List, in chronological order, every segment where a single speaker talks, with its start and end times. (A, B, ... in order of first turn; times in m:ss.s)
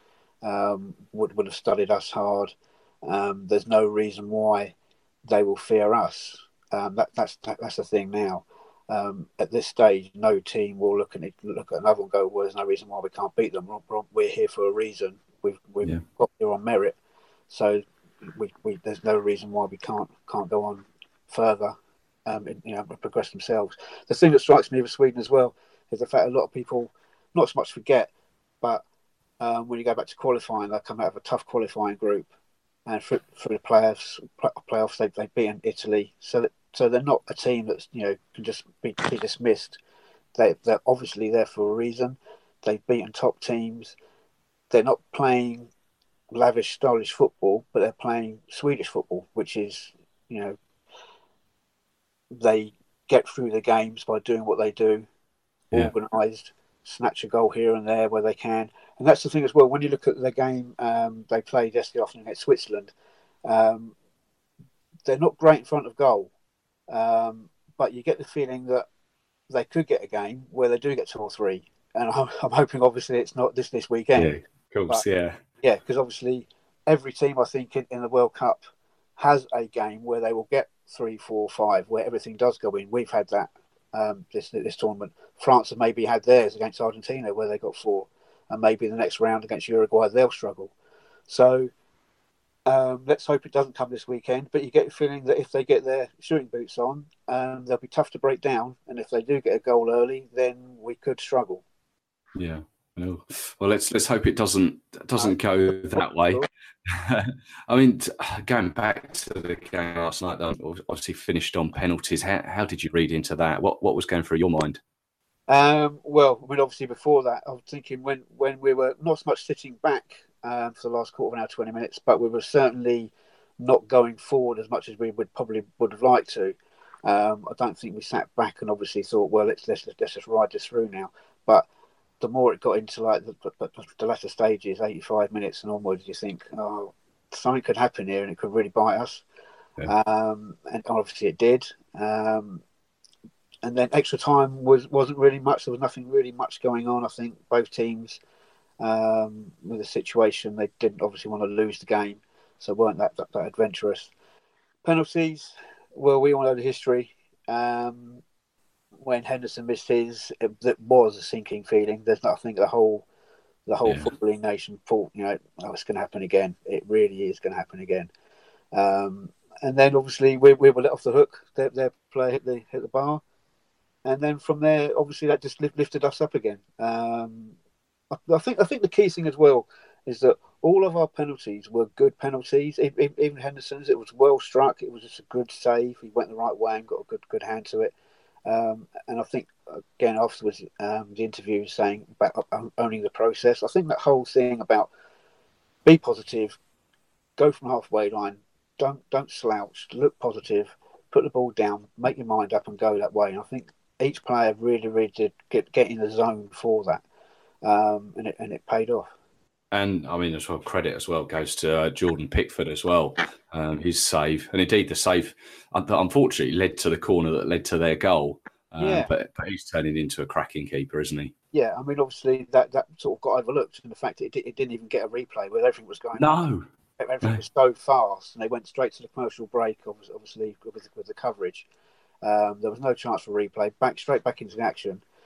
0:00.4-0:02.5 A
0:03.0-0:04.8 A
0:05.3-0:17.0 A
0:17.5-0:21.8 A
0:22.3-0:28.1 A
0:29.4-0:32.3 A
0:32.9-0:39.8 A
0:40.4-0:44.0 A
0:44.7-0:45.7 A
0:46.3-0:50.6 A
0:52.3-0:55.1 A
0:55.7-1:02.9 A
1:03.4-1:03.9 A
1:05.0-1:06.3 A
1:06.9-1:08.9 A
1:09.5-1:14.3 A
1:14.2-1:15.4 B
1:15.6-1:18.6 A
1:19.2-1:30.7 A
1:31.3-1:31.7 A
1:32.7-1:41.6 A
1:42.4-1:54.8 B
1:45.2-1:46.5 A
1:55.5-2:11.7 A
2:12.2-2:19.2 A
2:19.8-2:22.6 A
2:23.6-2:28.2 A
2:28.8-2:34.1 A
2:34.8-2:38.2 A
2:39.0-2:43.1 A
2:43.7-2:48.1 A
2:43.8-2:44.1 B
2:48.7-2:53.2 A
2:54.0-2:57.5 A
2:58.1-3:07.9 A
3:08.5-3:14.9 A
3:15.8-3:16.6 A
3:17.4-3:27.0 A
3:27.6-3:29.1 A
3:29.7-3:41.3 B
3:38.8-3:39.1 A
3:41.5-3:46.3 A
3:46.2-3:46.7 B
3:47.0-3:51.7 A
3:52.2-3:55.0 A